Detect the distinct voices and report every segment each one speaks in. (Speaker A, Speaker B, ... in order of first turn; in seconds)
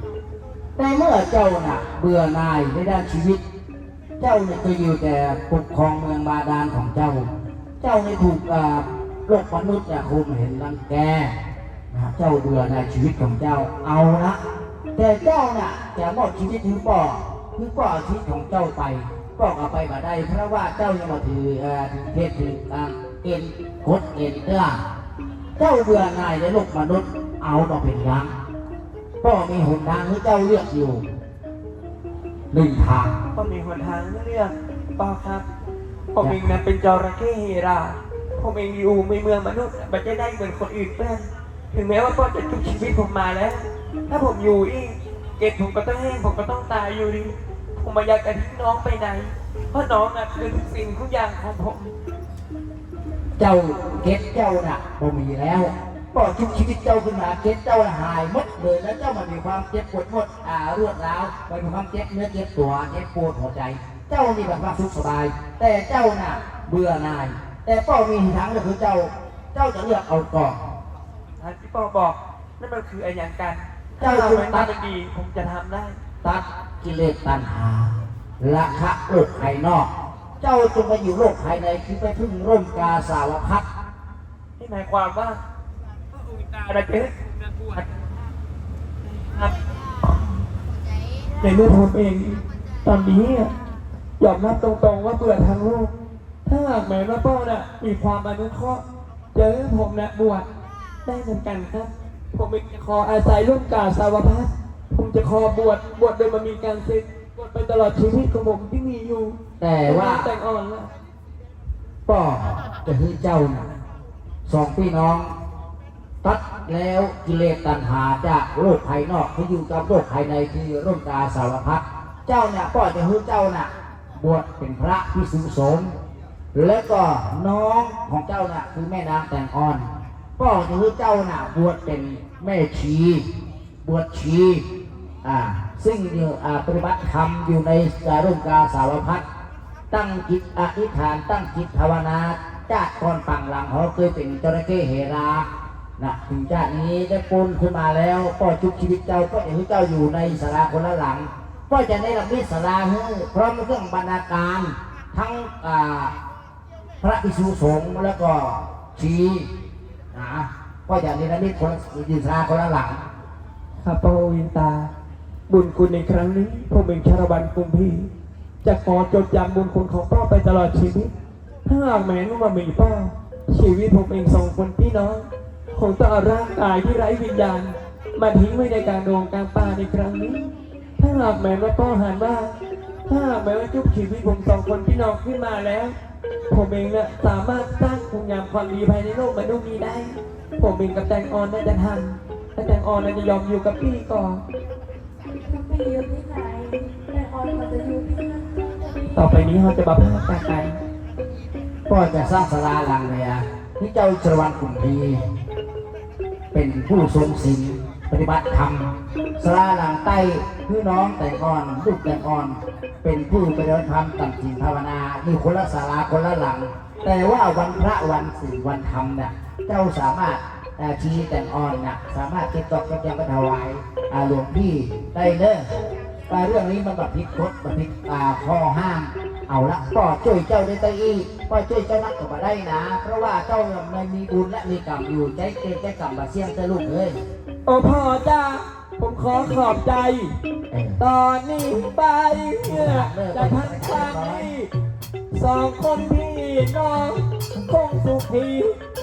Speaker A: 0.8-3.4, 4.2-7.3, 7.8-11.3, 11.9-14.4, 15.0-24.8, 25.6-28.3, 29.2-31.0, 32.5-33.1, 53.4-70.6, 74.0-74.7, 76.2-83.6, 109.6-110.3, 112.1-113.7, 114.5-115.3, 116.2-125.9, 126.5-129.9, 130.4-133.3, 133.8-134.6, 135.2-139.2, 139.9-145.5, 146.0-156.1, 157.0-159.5, 160.1-163.0, 201.9-205.2, 206.5-225.7, 226.3-237.2, 240.7-241.0, 242.6-244.5
Speaker B: 33.3-35.5, 36.1-51.9, 71.4-76.0, 84.6-85.4, 86.2-87.9, 91.4-93.5, 94.2-95.9, 96.5-98.8, 99.3-100.5, 101.0-110.9, 163.8-164.9, 165.5-168.1, 168.6-171.1, 171.7-182.5, 183.1-185.9, 186.5-194.4, 199.1-200.8, 237.7-240.4, 241.0-244.7, 245.3-248.8
Speaker C: 195.3-199.1